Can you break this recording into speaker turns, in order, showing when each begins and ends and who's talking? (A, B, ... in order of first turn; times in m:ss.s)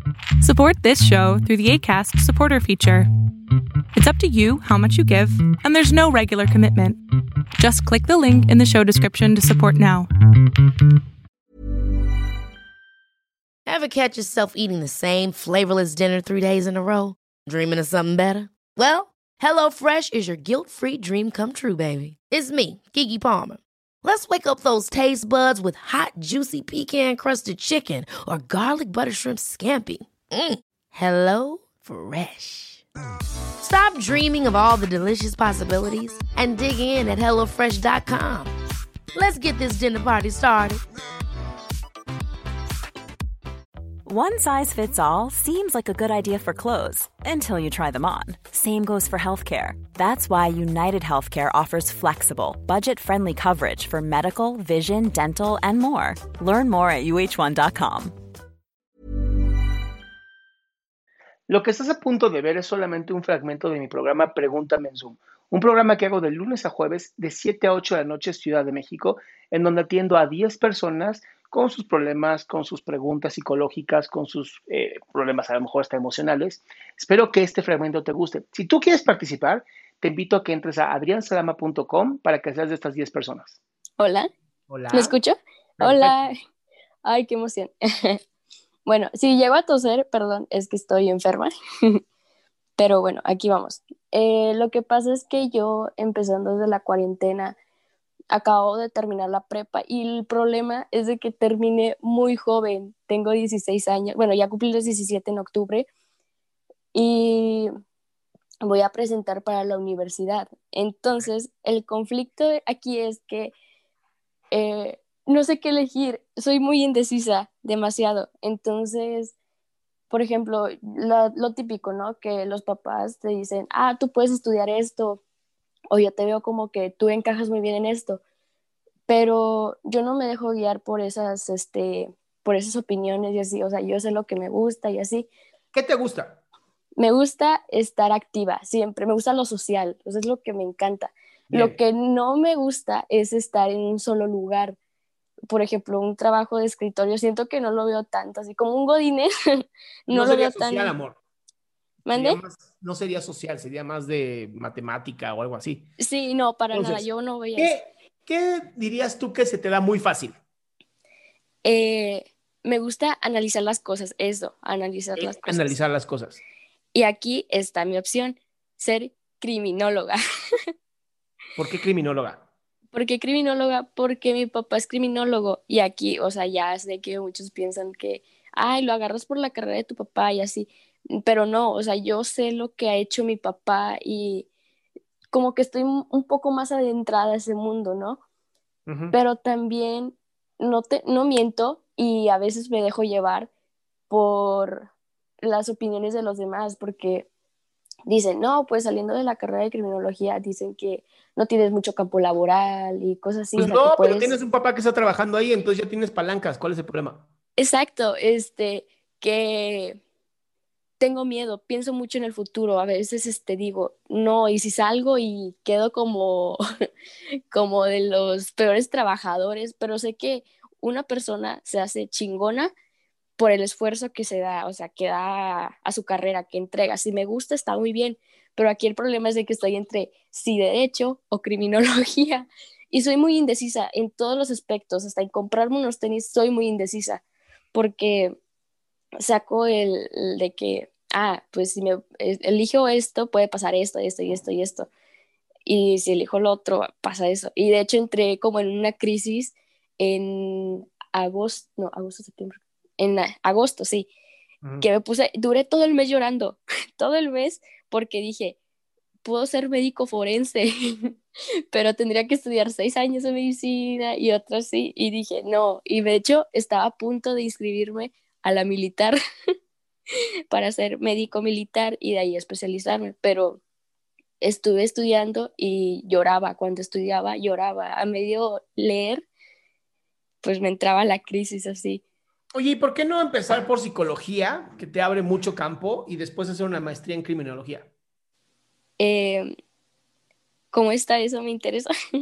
0:00.4-0:03.1 A
0:03.9-0:07.0 A
0:07.6-0:10.1 A
0:13.6-0:32.8 B
0:33.6-0:38.5 B
0:39.1-0:40.8 B
0:44.0-0:58.1 C
1:01.5-1:23.6 D
1:24.0-1:24.3 E
1:24.7-1:25.1 D
1:24.9-1:26.3 E
1:25.8-1:26.3 D
1:27.0-1:28.2 E
1:28.8-1:32.0 E
1:32.8-1:37.6 E
1:38.3-1:45.9 E
1:46.9-1:47.7 E
1:48.6-1:53.5 E
1:54.5-1:59.3 E
2:00.1-2:05.2 E
2:05.9-2:08.2 E
2:09.1-2:15.3 E
2:15.7-2:16.4 D
2:17.0-2:24.8 E
2:21.5-2:21.8 D
2:25.5-2:30.9 E
2:30.1-2:31.2 D
2:32.0-2:32.4 E
2:32.1-2:35.9 D
2:36.0-2:37.7 E
2:36.7-2:37.0 D
2:37.6-2:40.4 D
2:41.6-2:45.8 E
2:45.2-2:46.4 D
2:46.9-2:50.2 E
2:51.6-2:52.4 D
2:52.9-3:04.5 E
3:05.3-3:08.2 E
3:08.9-3:09.1 D
3:09.1-3:13.5 E
3:14.1-3:14.9 E
3:15.4-3:17.3 E
3:18.0-3:24.3 E
3:23.6-3:27.2 D
3:27.6-3:30.0 E
3:31.0-3:36.6 E
3:37.5-3:42.7 E
3:43.4-3:57.2 E
3:57.7-3:58.4 E
3:59.2-4:04.9 E
4:05.6-4:14.1 E
4:14.8-4:18.6 E
4:19.2-4:21.1 E
4:21.7-4:29.2 E
4:30.5-4:33.6 E
4:34.4-4:39.2 E
4:40.4-4:42.0 E
4:42.5-4:47.9 D
4:49.0-4:49.5 E
4:50.7-4:51.9 E